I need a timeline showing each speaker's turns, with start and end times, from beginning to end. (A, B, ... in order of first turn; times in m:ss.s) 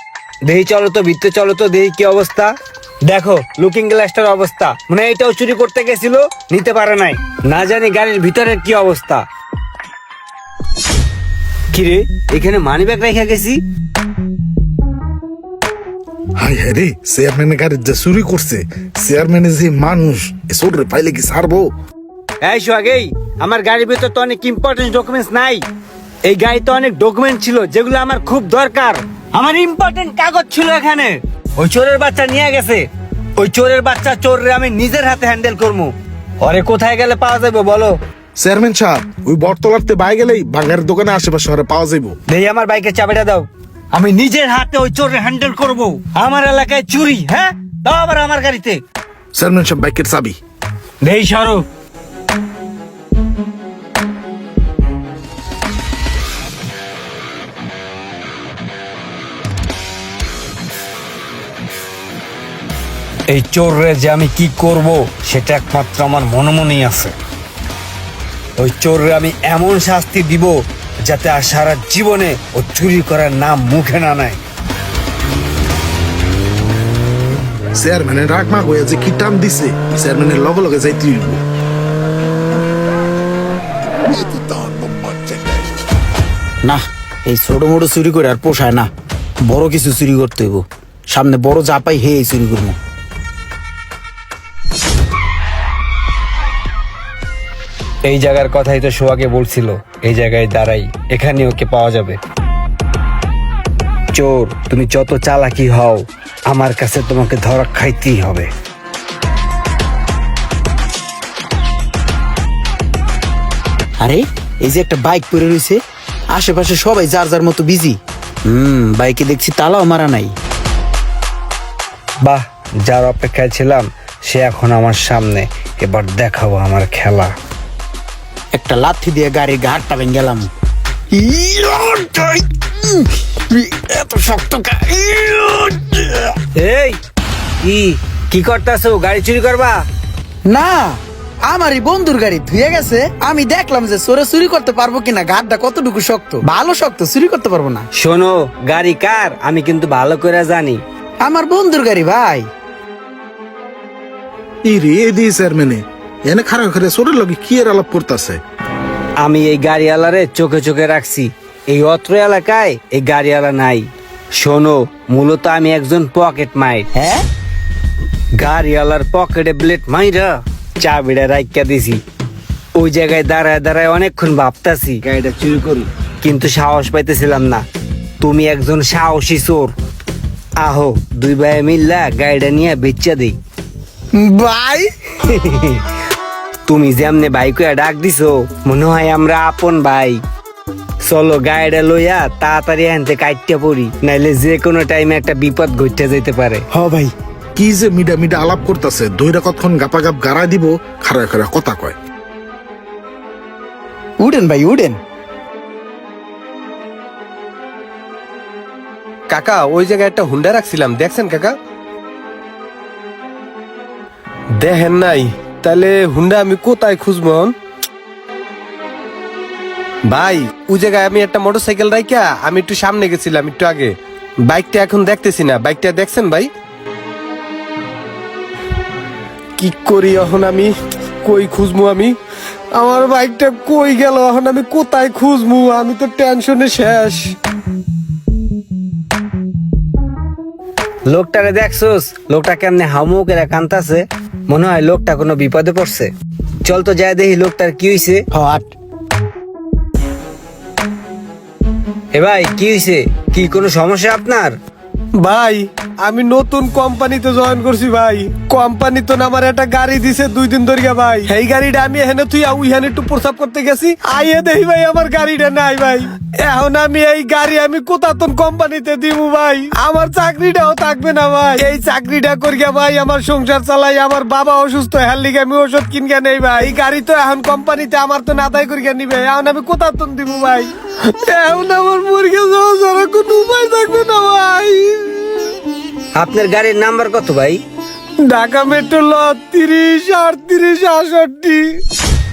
0:00.4-0:02.5 A
0:03.0-0:09.2 A
0:11.7-0:13.6 A
0:16.4-0:21.7 B
0:22.4-0:25.6 A
0:26.2-0:38.0 A
0:38.4-0:42.2 B
0:42.3-0:48.8 A
0:49.3-0:50.4 B
0:51.0-0:51.6 A
1:03.3-1:07.1 A
1:08.6-1:14.4 A
1:17.7-1:21.4 B
1:24.1-1:25.6 B
1:26.6-1:28.9 C
1:29.4-1:32.8 C
1:38.0-1:42.2 A
1:44.1-1:48.5 A
1:54.0-1:55.8 C
1:56.3-1:58.0 C
1:58.5-2:00.3 C
2:02.2-2:07.3 A
2:08.5-2:10.5 C
2:11.1-2:16.3 C
2:16.6-2:17.0 A
2:17.6-2:19.8 A
2:20.5-2:27.9 C
2:28.0-2:30.8 A
2:31.2-2:32.5 C
2:34.6-2:38.4 B
2:39.2-2:46.9 A
2:46.9-2:47.2 C
2:48.4-2:52.0 A
2:52.8-2:57.6 A
2:58.2-2:59.7 A
3:00.6-3:03.4 A
3:04.2-3:04.9 C
3:05.2-3:05.8 A
3:06.7-3:10.2 A
3:11.0-3:16.6 A
3:16.7-3:17.1 C
3:17.5-3:22.0 B
3:24.2-3:25.0 C
3:29.3-3:31.6 D
3:34.5-3:37.5 D
3:40.1-3:46.5 D
3:49.6-3:52.2 D
3:52.8-3:57.3 D
4:01.1-4:06.1 A
4:06.6-4:08.2 A
4:08.3-4:08.7 C
4:12.1-4:14.5 A
4:15.2-4:45.6 D
4:46.1-4:47.6 A
4:48.2-4:51.8 D